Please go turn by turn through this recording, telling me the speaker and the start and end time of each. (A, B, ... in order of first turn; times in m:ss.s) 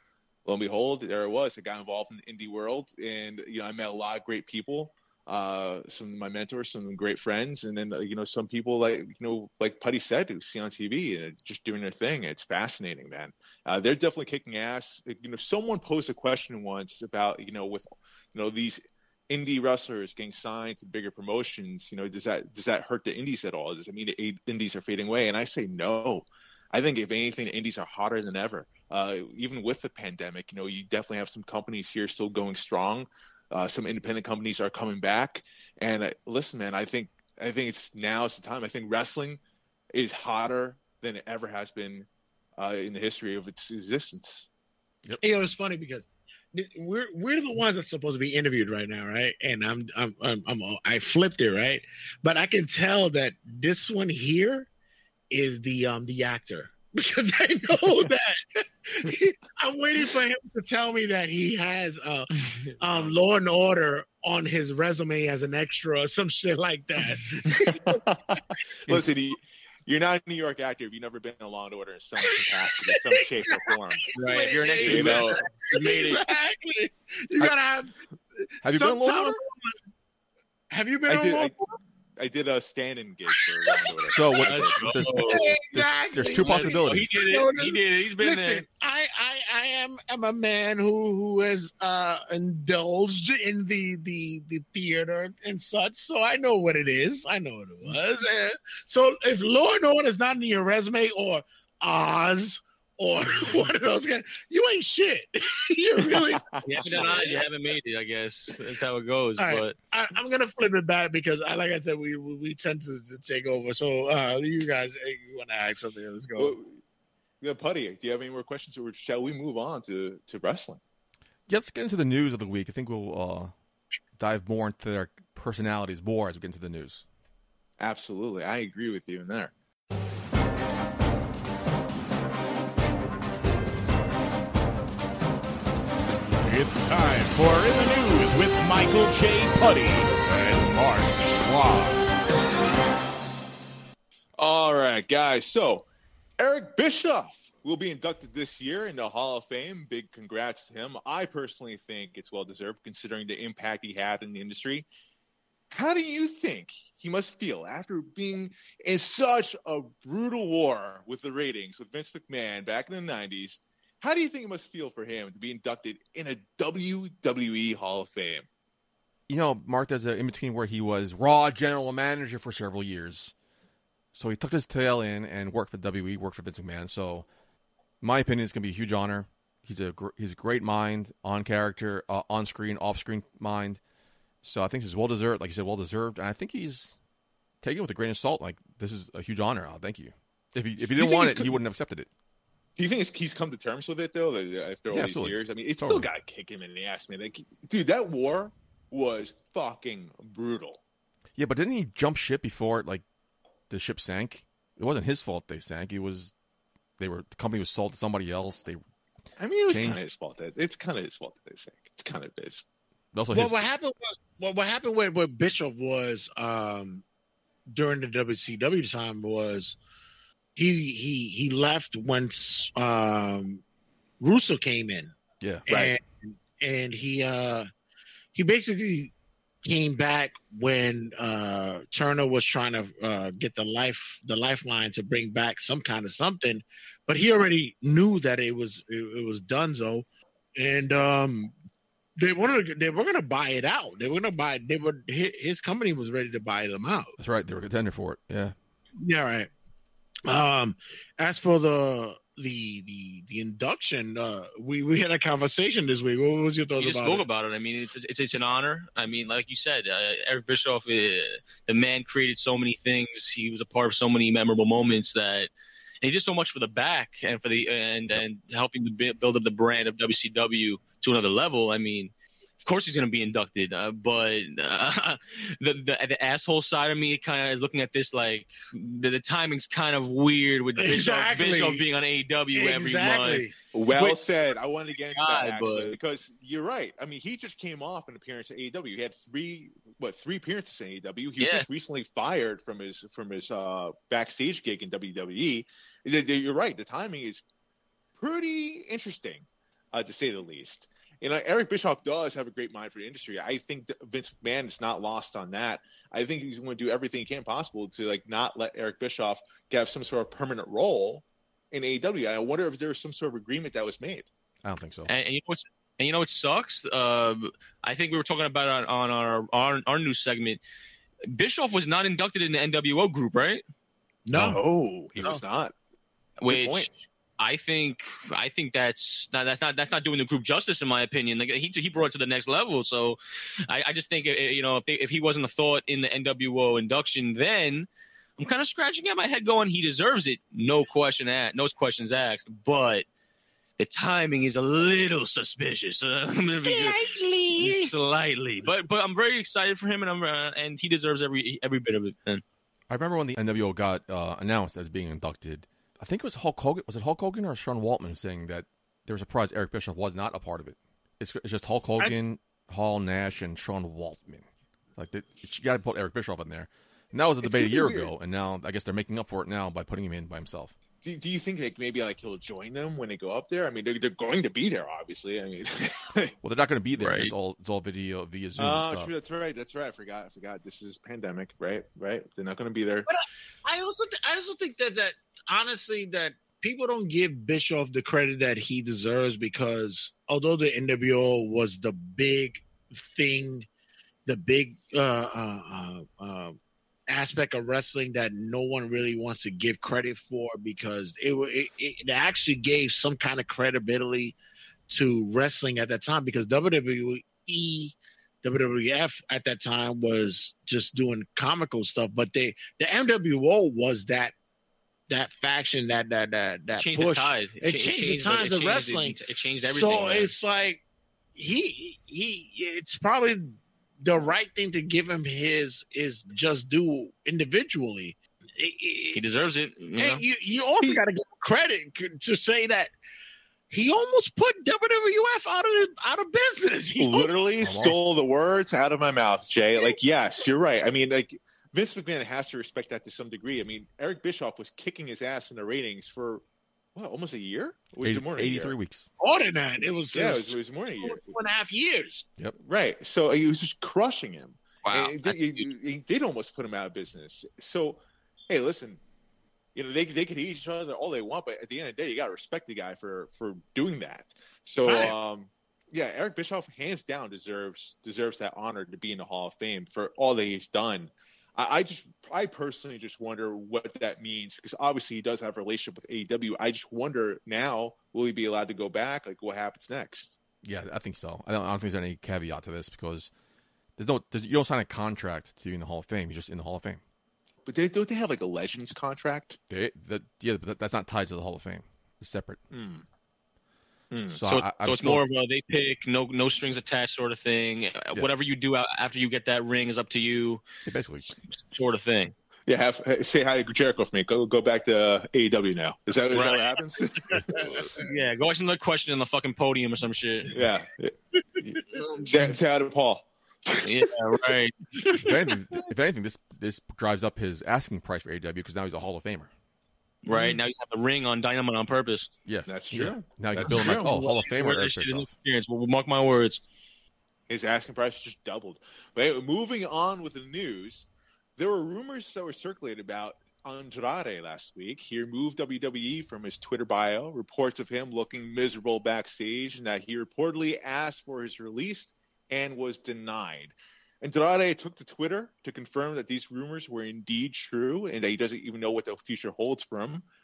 0:00.4-0:39.4 A
0:39.9-0:44.5 A
0:45.2-0:54.7 B
0:55.3-1:08.0 B
1:02.8-1:03.1 A
1:07.4-1:14.0 A
1:12.3-1:19.7 B
1:14.1-1:16.2 C
1:14.8-1:15.4 A
1:18.6-1:19.4 D
1:20.7-1:21.8 B
1:21.1-1:21.5 A
1:22.2-1:24.8 A
1:23.3-1:24.4 B
1:24.1-1:27.2 D
1:24.4-1:25.5 C
1:25.2-1:47.4 B
1:26.4-1:28.6 C
1:46.0-1:47.4 A
1:46.6-1:49.7 C
1:49.4-1:56.6 B
1:56.4-1:56.8 A
1:57.4-2:00.8 A
2:01.5-2:03.5 D
2:04.2-2:07.0 D
2:07.8-2:09.5 A
2:16.4-2:22.0 E
2:24.4-2:25.8 A
2:26.4-2:34.9 A
2:35.7-2:48.5 A
2:49.3-2:53.3 D
2:54.1-2:57.3 D
2:58.0-3:03.8 D
3:04.4-3:07.0 D
3:07.6-3:12.1 D
3:10.9-3:11.6 A
3:12.8-3:20.8 A
3:14.9-3:16.1 D
3:21.4-3:23.0 D
3:23.7-3:26.3 D
3:27.0-3:28.8 D
3:29.4-3:32.6 A
3:29.7-3:30.0 D
3:33.1-3:33.6 D
3:33.3-3:37.0 B
3:37.7-3:39.8 B
3:40.6-3:43.6 B
3:44.2-3:45.1 B
3:45.4-3:45.6 D
3:45.7-3:47.7 B
3:45.7-3:46.0 A
3:48.3-3:49.1 B
3:49.6-4:00.0 B
4:00.6-4:01.5 B
4:02.2-4:07.2 B
4:07.2-4:08.5 D
4:09.0-4:09.5 B
4:10.2-4:17.2 B
4:16.8-4:25.5 C
4:26.0-4:32.1 C
4:32.6-4:43.4 C
4:40.8-4:41.8 B
4:42.5-4:44.2 B
4:43.7-4:57.4 A
4:45.1-4:46.0 C
4:51.4-4:51.7 C
4:58.2-5:14.3 A
5:14.6-5:15.1 D
5:15.1-5:20.6 C
5:21.3-5:23.6 C
5:24.2-5:24.6 B
5:24.3-5:24.6 D
5:24.4-5:25.7 A
5:26.4-5:43.0 C
5:26.5-5:26.9 A
5:43.8-5:52.4 C
5:46.6-5:47.9 B
5:52.9-6:04.4 D
6:05.0-6:10.7 D
6:07.4-6:08.1 A
6:11.0-6:16.3 A
6:16.4-6:19.1 D
6:17.0-6:17.3 C
6:18.6-6:23.1 A
6:23.1-6:33.7 B
6:34.2-6:44.4 B
6:44.9-6:54.3 B
6:55.1-7:00.8 B
6:56.7-7:00.3 C
7:01.3-7:09.2 B
7:09.1-7:10.2 C
7:10.0-7:12.9 B
7:13.7-7:17.3 B
7:17.0-7:26.4 A
7:17.6-7:18.1 D
7:26.9-7:28.7 A
7:28.0-7:29.0 D
7:29.2-7:32.2 B
7:30.1-7:31.3 A
7:32.6-7:39.0 A
7:34.8-7:35.7 C
7:39.7-8:00.4 A
7:44.8-7:45.1 C
8:00.6-8:03.3 D
8:04.0-8:07.0 D
8:07.6-8:09.6 A
8:09.7-8:12.6 D
8:12.7-8:13.0 A
8:14.1-8:14.4 A
8:14.3-8:15.2 D
8:14.4-8:20.6 C
8:20.8-8:21.3 D
8:21.5-8:22.3 C
8:22.7-8:28.0 A
8:26.3-8:26.7 C
8:27.6-8:30.6 C
8:30.5-8:34.1 A
8:31.9-8:32.3 C
8:33.8-8:35.3 C
8:35.2-8:39.5 D
8:40.2-8:42.3 C
8:40.3-8:40.6 A
8:42.4-8:45.3 D
8:42.7-8:44.1 A
8:43.6-8:46.6 C
8:47.5-9:10.2 A